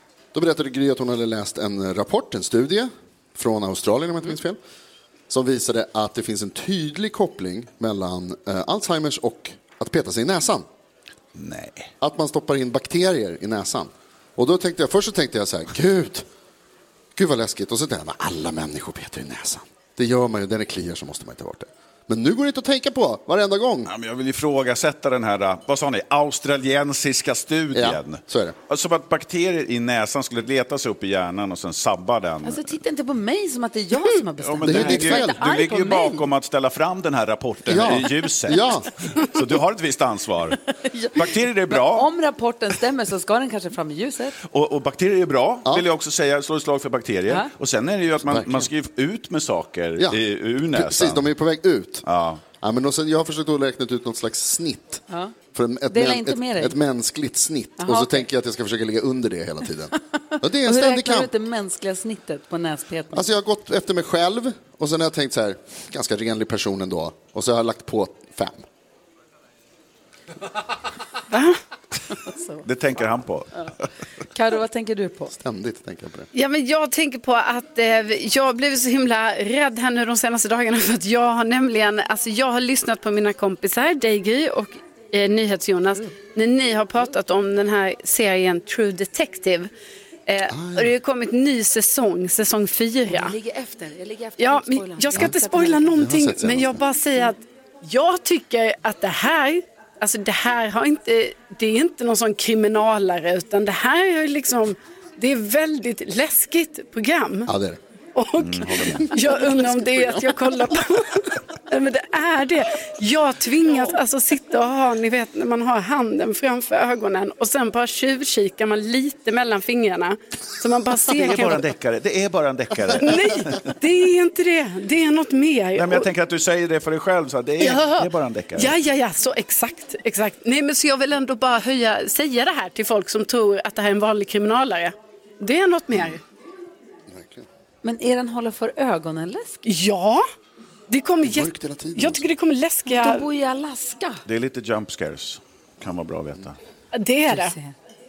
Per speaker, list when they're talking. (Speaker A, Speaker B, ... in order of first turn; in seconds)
Speaker A: 0.3-4.6, 5.3-10.7, 12.0-16.3, 17.1-23.9, 27.7-28.6, 34.6-35.4, 37.7-38.9, 48.2-48.7, 50.7-52.0, 52.6-55.0, 55.5-61.3, 63.1-68.7, 75.3-76.3, 90.5-90.9, 96.0-96.8, 107.5-107.8, 137.1-137.4, 141.2-142.3
Speaker B: 11.3-11.9, 23.9-32.7, 34.4-40.6, 41.1-42.1, 44.5-51.3, 52.1-52.4, 72.7-73.8, 108.4-109.0, 121.1-123.5, 125.8-128.8, 144.3-146.6
Speaker C: 32.4-36.2, 40.8-44.4, 55.1-55.3, 55.9-56.8, 57.8-58.3, 60.6-63.2, 72.3-72.6, 74.3-75.3, 93.1-96.1, 137.8-139.6, 142.9-144.2, 147.3-147.8
Speaker D: 71.3-71.6, 76.3-89.7, 90.3-93.4, 94.4-107.5, 108.2-121.7, 123.0-126.1, 127.6-136.2, 139.6-140.2, 140.9-143.3, 146.9-147.6